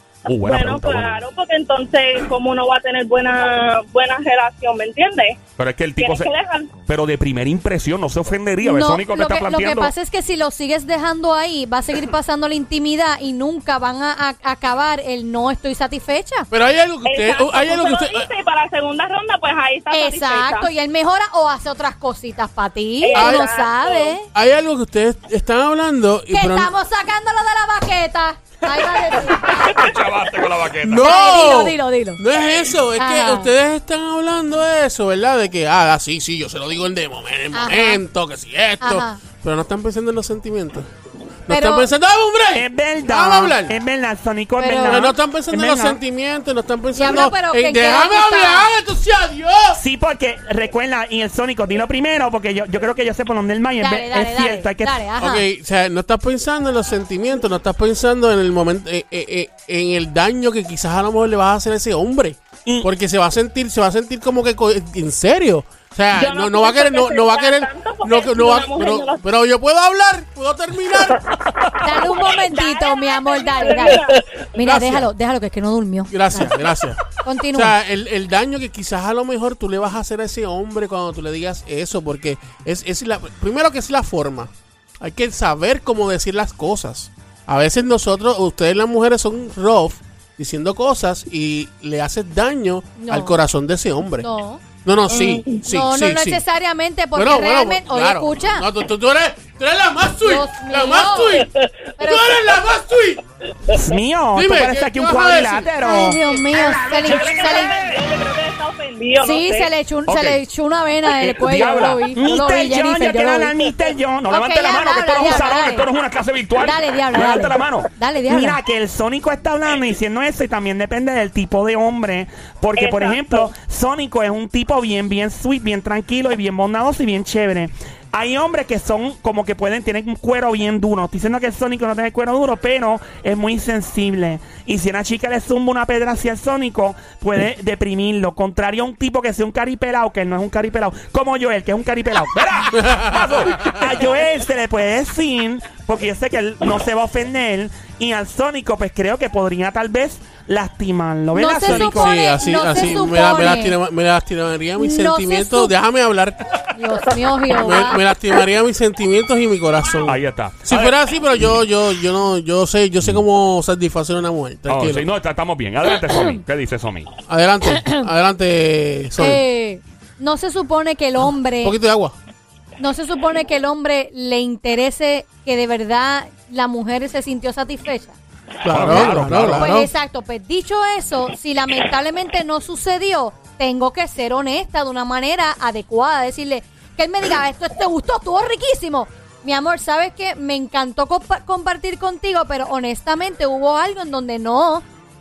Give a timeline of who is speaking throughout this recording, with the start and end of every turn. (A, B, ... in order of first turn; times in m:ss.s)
0:00.2-0:01.2 A
0:00.3-0:05.4 B
0:05.6-0:06.3 A
0:06.0-0:06.7 B
0:06.9-0:09.9 A
0:08.6-0:16.5 C
0:16.5-0:18.3 D
0:17.0-0:20.7 B
0:19.9-0:24.2 C
0:23.0-0:24.2 B
0:23.1-0:23.5 D
0:24.3-0:26.7 D
0:26.3-0:29.6 C
0:29.2-0:31.2 A
0:30.8-0:40.9 D
0:31.0-0:32.2 C
0:33.0-0:33.5 C
0:37.5-0:38.0 C
0:38.8-0:39.2 C
0:41.5-0:43.7 D
0:41.5-0:41.9 C
0:42.5-0:46.0 E
0:44.6-0:45.1 C
0:44.8-0:49.8 D
0:46.9-0:48.7 C
0:49.8-0:55.0 E
0:53.8-0:55.4 C
0:55.2-1:11.2 D
1:06.1-1:09.2 B
1:11.8-1:14.0 C
1:11.9-1:14.4 B
1:14.6-1:16.6 C
1:14.6-1:15.1 D
1:16.1-1:17.0 D
1:17.2-1:17.8 C
1:17.5-1:34.3 D
1:33.0-1:33.4 C
1:34.2-1:34.6 C
1:34.8-1:36.4 D
1:35.1-1:35.6 B
1:35.6-1:38.7 C
1:37.1-1:43.2 D
1:40.2-1:41.4 C
1:42.0-1:42.4 C
1:43.7-1:46.2 E
1:44.3-1:45.7 D
1:45.8-1:47.7 C
1:46.8-1:49.7 B
1:49.2-1:53.5 C
1:50.1-1:50.4 A
1:51.1-1:52.1 A
1:52.1-1:55.1 E
1:54.3-1:55.8 C
1:54.3-1:57.9 A
1:56.6-1:58.6 C
1:58.3-2:22.5 E
2:02.8-2:03.5 B
2:22.3-2:24.0 A
2:22.8-2:23.2 D
2:23.6-2:32.2 E
2:31.3-2:33.8 C
2:31.6-2:36.4 D
2:34.8-2:35.7 C
2:36.7-2:38.0 C
2:37.5-2:45.1 D
2:40.0-2:41.0 A
2:44.7-2:47.1 A
2:47.3-2:49.4 D
2:47.7-2:48.0 C
2:49.2-2:51.8 C
2:51.6-2:52.1 D
2:52.8-2:58.2 C
2:58.6-2:59.9 D
2:58.7-2:59.7 A
2:58.9-3:14.8 C